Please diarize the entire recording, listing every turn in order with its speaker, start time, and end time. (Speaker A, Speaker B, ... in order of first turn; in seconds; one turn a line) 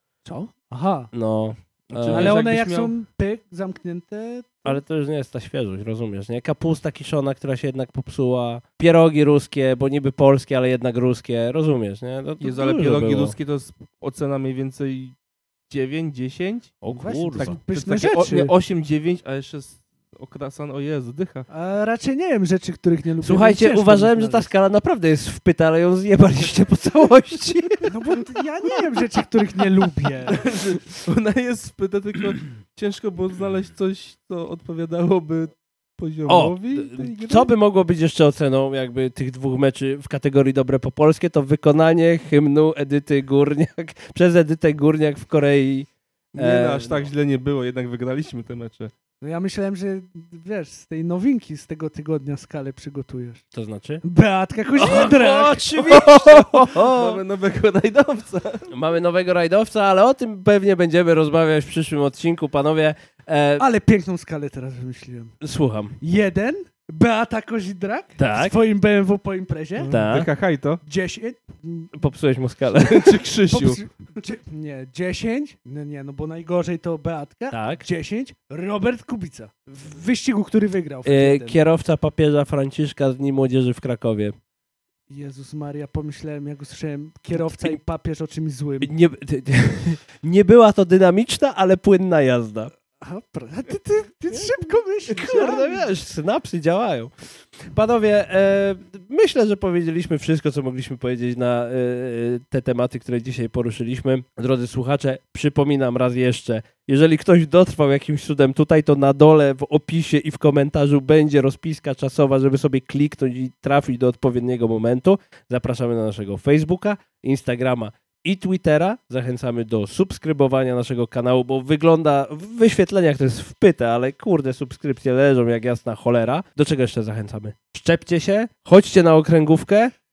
Speaker A: 0.2-1.1
Speaker B: 1.1-2.4
Speaker C: 1.9-2.9
Speaker A: 2.1-4.8
Speaker B: 4.6-13.3
Speaker C: 12.4-15.1
Speaker C: 15.7-16.8
Speaker B: 16.8-17.6
Speaker A: 16.9-18.5
Speaker C: 17.3-21.5
Speaker A: 21.5-24.5
Speaker B: 23.2-27.9
Speaker A: 27.8-30.5
Speaker C: 30.3-37.5
Speaker B: 36.3-47.1
Speaker C: 46.3-48.9
Speaker A: 49.2-53.4
Speaker B: 53.5-54.0
Speaker A: 54.0-55.7
Speaker B: 54.8-57.2
Speaker C: 55.8-58.7
Speaker B: 58.7-63.6
Speaker A: 63.6-65.3
Speaker B: 65.4-66.0
Speaker A: 66.0-69.9
Speaker B: 68.2-68.5
Speaker C: 69.8-70.8
Speaker B: 69.9-70.3
Speaker A: 70.8-71.9
Speaker B: 71.9-73.2
Speaker C: 72.8-73.8
Speaker A: 73.5-81.6
Speaker B: 77.5-77.8
Speaker B: 81.0-84.3
Speaker A: 85.1-88.9
Speaker B: 87.3-87.8
Speaker B: 88.8-92.7
Speaker A: 93.0-95.9
Speaker B: 95.1-97.1
Speaker B: 97.6-129.9